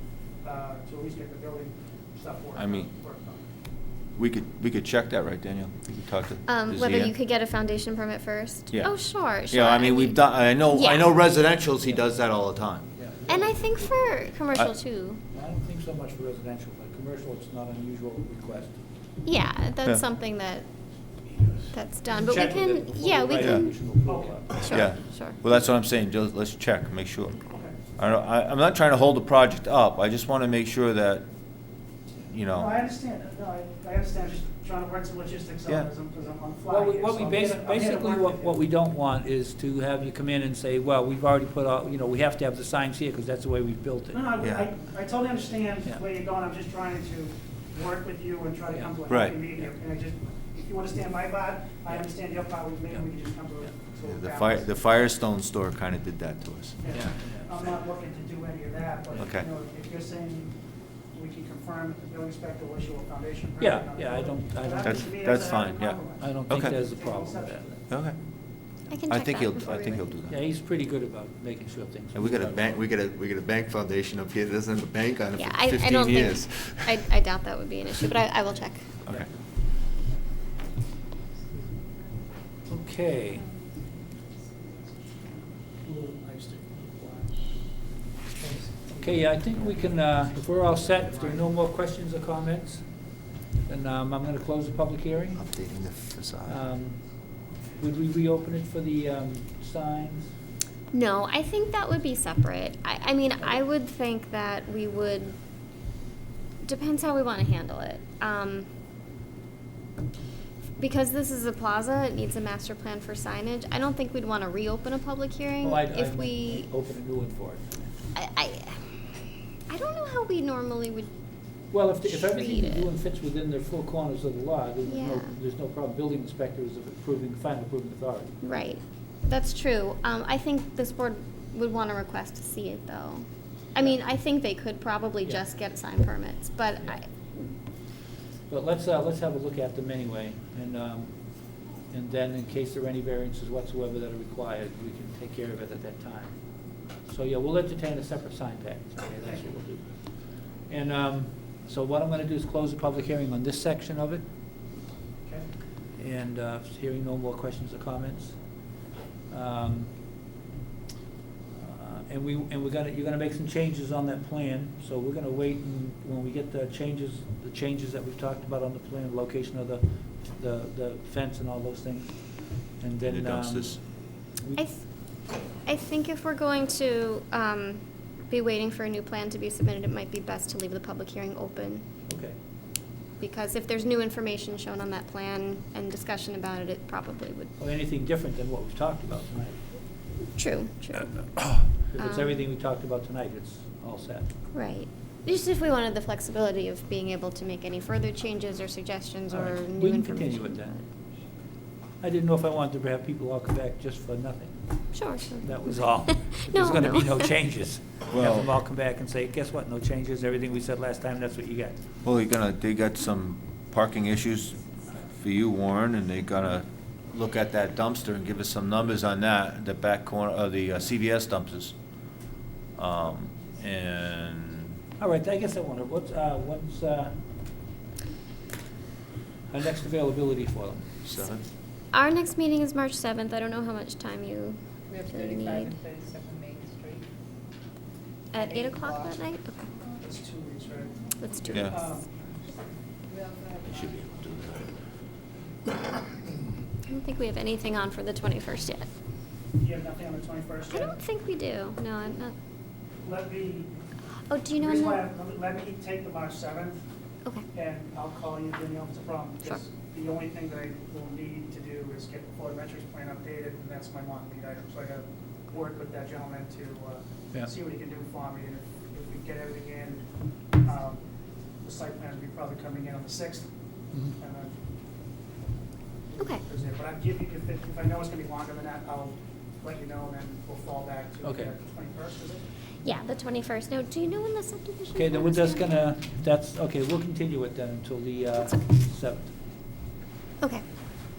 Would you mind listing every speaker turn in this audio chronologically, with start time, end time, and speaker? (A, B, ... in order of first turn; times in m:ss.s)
0:00.4-0:03.5 A
0:02.6-0:02.9 B
0:04.1-0:07.1 B
0:06.5-0:11.1 C
0:08.7-0:12.9 B
0:12.9-0:13.9 D
0:13.3-0:15.2 C
0:15.3-0:18.8 D
0:19.2-0:20.7 C
0:21.3-0:24.9 D
0:21.7-0:23.7 C
0:23.4-0:23.6 B
0:24.0-0:24.6 A
0:24.6-0:25.4 C
0:24.7-0:27.4 B
0:28.0-0:31.3 B
0:32.3-0:32.7 B
0:32.5-0:38.6 A
0:36.7-0:44.3 D
0:44.1-0:54.8 A
0:44.4-0:44.7 B
0:48.7-0:49.7 D
0:49.1-0:49.3 B
0:51.9-0:53.0 D
0:54.0-0:57.2 B
0:56.8-1:00.6 A
0:56.9-0:57.5 D
0:59.2-0:59.5 B
1:01.1-1:07.8 A
1:03.6-1:05.2 D
1:04.8-1:06.8 B
1:06.2-1:07.8 D
1:07.9-1:08.2 B
1:08.9-1:10.1 C
1:09.1-1:10.4 B
1:10.3-1:12.6 D
1:12.1-1:17.1 B
1:15.4-1:18.9 C
1:22.7-1:23.4 D
1:25.8-1:27.7 A
1:28.4-1:29.7 A
1:29.0-1:33.1 D
1:30.8-1:31.4 A
1:33.6-1:35.4 D
1:35.3-1:36.6 B
1:36.5-1:37.2 D
1:37.8-1:40.3 D
1:40.9-1:45.4 C
1:46.6-1:48.7 C
1:50.8-1:56.7 C
1:55.6-1:57.9 D
1:58.1-1:59.1 C
1:59.7-2:01.1 C
2:01.7-2:08.3 D
2:02.0-2:02.9 C
2:04.8-2:05.4 C
2:08.4-2:17.1 C
2:18.5-2:34.2 D
2:35.9-2:38.8 D
2:39.3-2:40.0 D
2:41.5-2:54.6 D
2:53.0-2:53.8 B
2:54.6-3:01.8 C
3:02.1-3:02.4 D
3:03.2-3:07.5 C
3:07.6-3:09.6 D
3:10.3-3:12.4 C
3:11.5-3:14.3 D
3:14.5-3:20.8 C
3:19.3-3:20.8 D
3:22.0-3:31.8 D
3:24.9-3:27.3 C
3:28.1-3:28.5 B
3:32.0-3:41.7 B
3:42.7-3:44.7 B
3:45.0-3:47.2 D
3:49.5-3:51.0 D
3:51.0-3:51.4 B
3:51.9-3:55.8 C
3:54.9-3:57.0 E
3:58.3-3:59.7 C
3:58.6-3:58.9 E
4:00.0-4:02.1 A
4:01.2-4:01.7 C
4:03.1-4:03.8 E
4:03.7-4:04.7 B
4:06.9-4:08.9 C
4:09.6-4:10.9 A
4:10.7-4:12.3 C
4:13.0-4:13.7 A
4:14.3-4:15.0 C
4:14.6-4:16.8 A
4:17.5-4:30.0 A
4:30.6-4:31.0 A
4:31.6-4:33.5 A
4:34.2-4:34.5 A
4:36.1-4:42.4 A
4:41.2-4:41.5 D
4:42.8-4:45.7 C
4:44.9-4:49.3 D